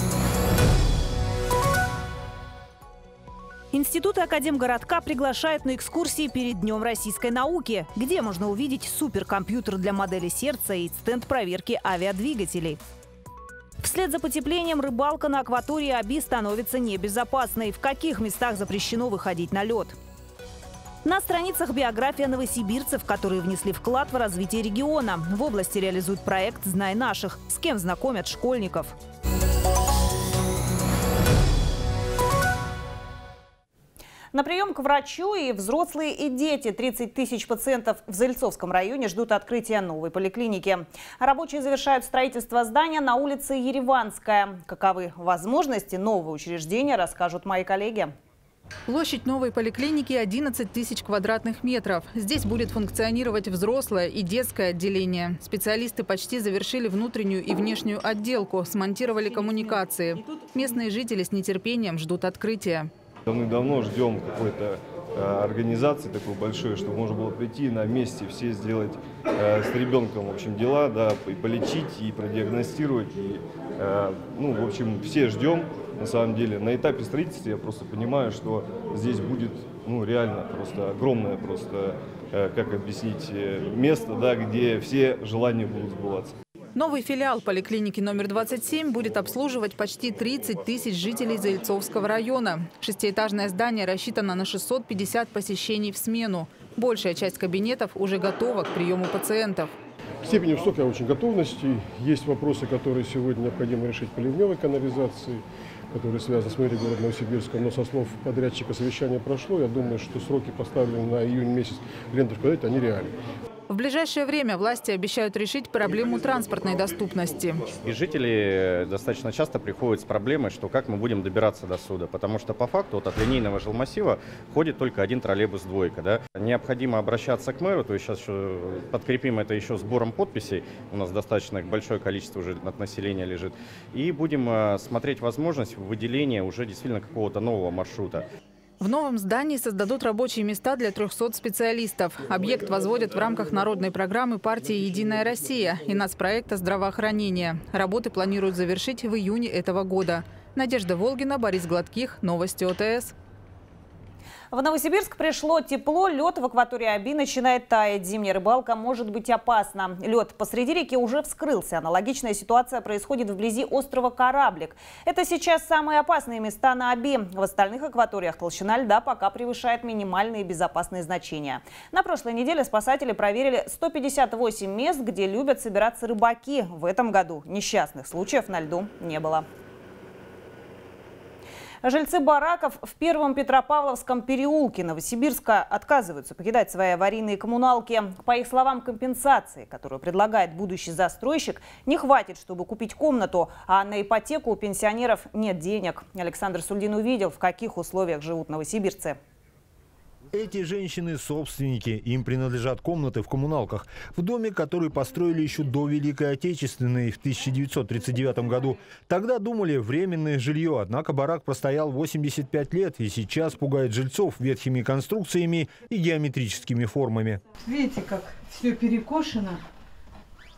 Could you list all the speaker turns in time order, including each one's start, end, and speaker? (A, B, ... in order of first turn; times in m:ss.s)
0:03.7-0:12.8 A
0:13.8-0:20.0 A
0:21.0-0:28.9 A
0:34.3-0:48.1 A
0:48.9-1:02.9 B
1:03.2-1:26.3 C
1:26.8-1:39.7 B
1:40.2-1:53.1 D
1:53.7-1:57.6 B
1:57.8-2:18.2 E
2:18.8-2:33.1 B
2:34.5-2:59.4 A
3:01.8-3:19.2 A
3:20.3-3:37.4 F
3:37.6-3:39.6 G